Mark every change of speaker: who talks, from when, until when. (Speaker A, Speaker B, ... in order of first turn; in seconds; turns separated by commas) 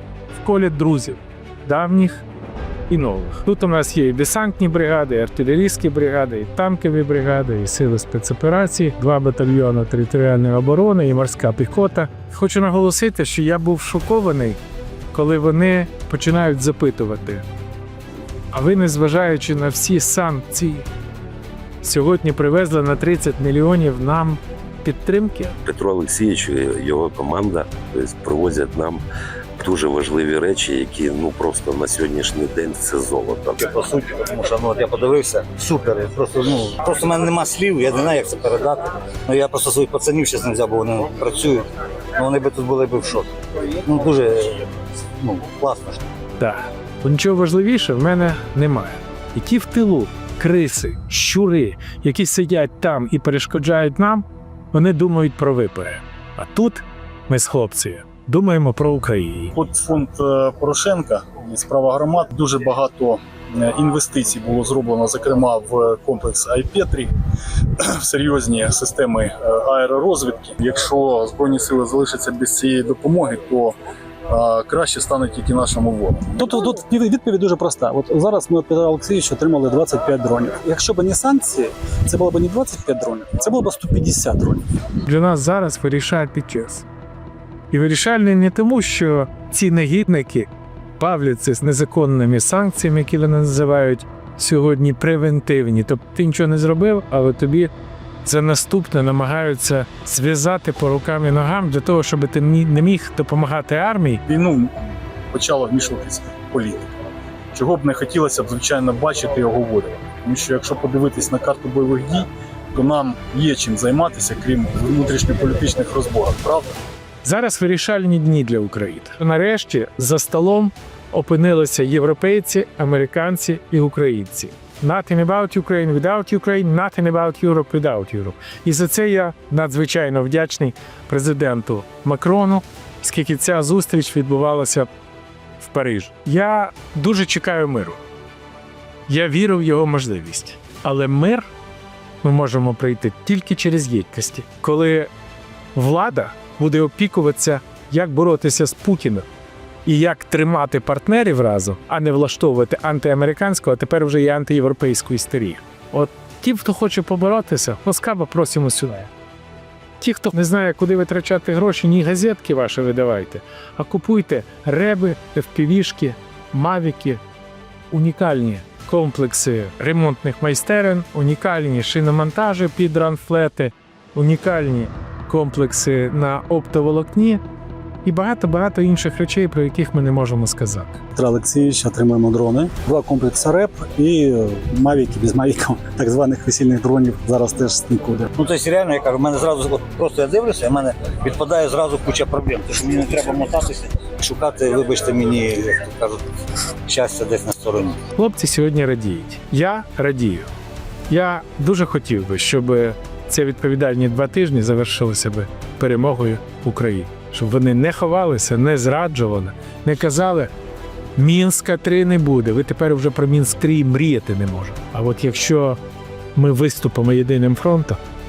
Speaker A: 0.3-2.2, Speaker A: 2.9-14.6, Speaker A: 15.1-17.4, Speaker A: 18.5-20.9, Speaker A: 21.8-25.6, Speaker B: 25.6-29.0, Speaker B: 29.6-33.7, Speaker C: 33.6-46.0, Speaker A: 46.4-59.5, Speaker D: 59.5-67.1, Speaker D: 67.8-73.8, Speaker D: 74.3-76.4, Speaker E: 76.4-84.7, Speaker A: 85.0-86.8, Speaker A: 87.7-97.7, Speaker A: 98.2-104.2, Speaker D: 104.3-104.8, Speaker D: 105.3-106.9, Speaker D: 107.5-116.8, Speaker A: 117.2-134.9, Speaker A: 135.6-138.0, Speaker A: 139.1-141.5, Speaker A: 142.2-145.1, Speaker A: 145.7-149.2, Speaker A: 149.8-159.1, Speaker A: 160.0-167.2, Speaker A: 167.9-177.4, Speaker A: 178.0-181.0, Speaker E: 181.1-188.3, Speaker C: 188.3-196.2, Speaker C: 196.8-198.0, Speaker A: 198.1-200.5, Speaker A: 201.1-210.5, Speaker A: 211.2-215.8, Speaker A: 216.3-218.0